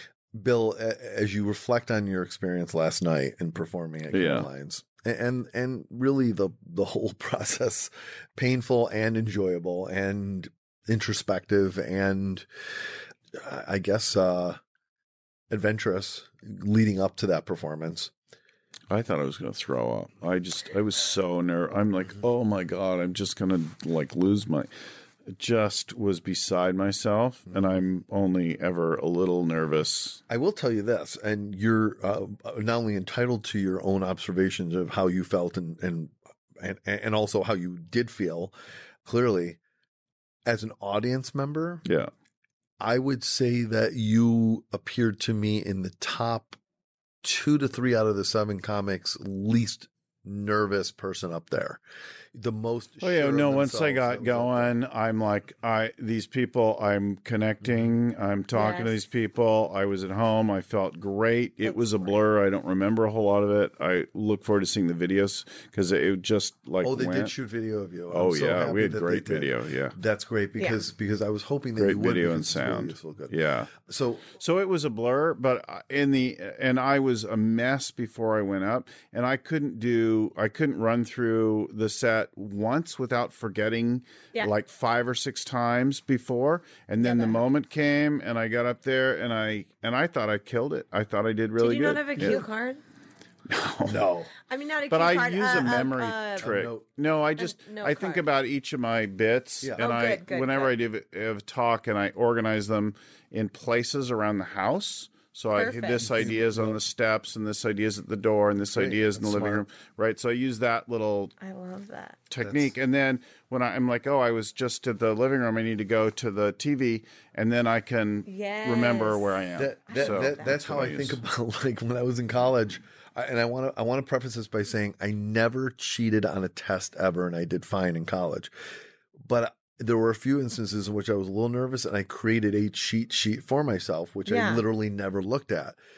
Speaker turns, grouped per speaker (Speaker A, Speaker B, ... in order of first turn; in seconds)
Speaker A: 0.3-12.4, 13.3-14.6, 15.5-18.1, 30.3-38.5, 39.0-39.6, 40.5-41.8, 42.8-46.6, 47.2-51.8, 52.3-54.7, 66.8-74.2, 93.9-94.3, 96.4-96.9, 99.6-99.9, 106.0-106.8, 108.7-109.6, 112.4-112.7, 119.6-128.5, 129.2-135.8
Speaker B: 4.1-4.5, 18.9-24.7, 25.3-30.2, 41.9-42.1, 53.0-67.3, 68.1-70.0, 71.8-73.7, 74.3-92.4, 93.5-94.1, 94.9-111.3, 112.3-121.2
Speaker C: 58.5-59.0, 61.6-62.2, 87.0-87.4, 91.6-92.8, 94.5-96.5, 97.4-98.2, 99.8-100.7, 105.5-106.1, 111.4-112.2, 118.2-120.5, 134.2-134.7